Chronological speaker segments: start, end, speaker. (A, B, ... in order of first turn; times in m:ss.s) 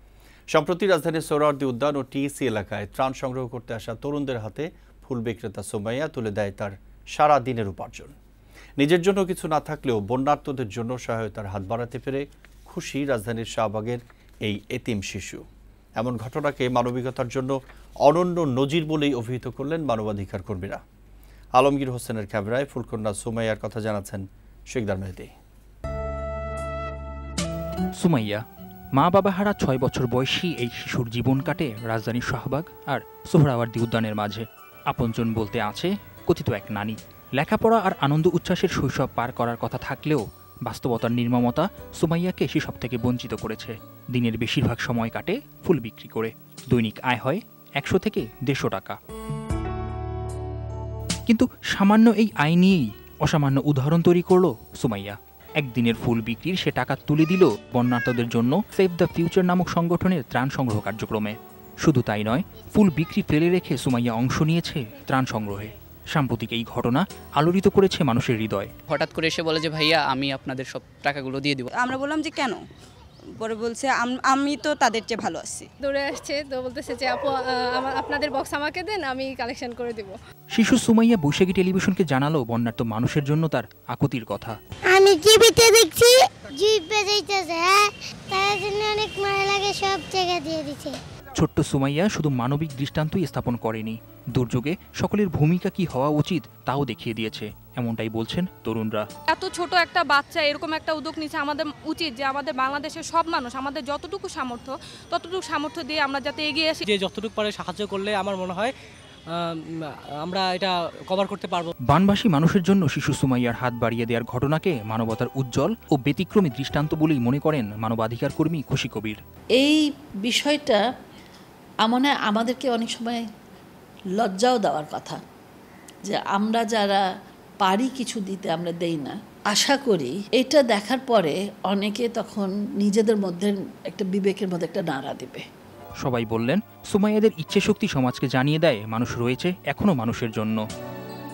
0:00.5-0:08.2 A
0:08.8-0:15.4 A
0:16.0-0:20.8 A
0:21.6-0:25.3 A
0:28.0-0:28.4 B
0:29.0-0:49.0 B
0:51.3-1:08.7 B
1:08.9-1:11.7 C
1:11.8-1:12.6 D
1:13.4-1:15.7 D
1:15.8-1:20.2 E
1:20.5-1:24.6 B
1:24.9-1:27.7 F
1:28.3-1:30.9 F
1:31.4-1:39.0 B
1:39.3-1:46.8 G
1:46.9-1:48.7 H
1:50.2-1:51.7 H
1:51.9-1:59.2 B
1:59.6-2:00.8 I
2:01.8-2:03.2 I
2:04.2-2:05.2 I
2:06.1-2:07.0 I
2:07.6-2:15.4 I
2:16.0-2:20.6 B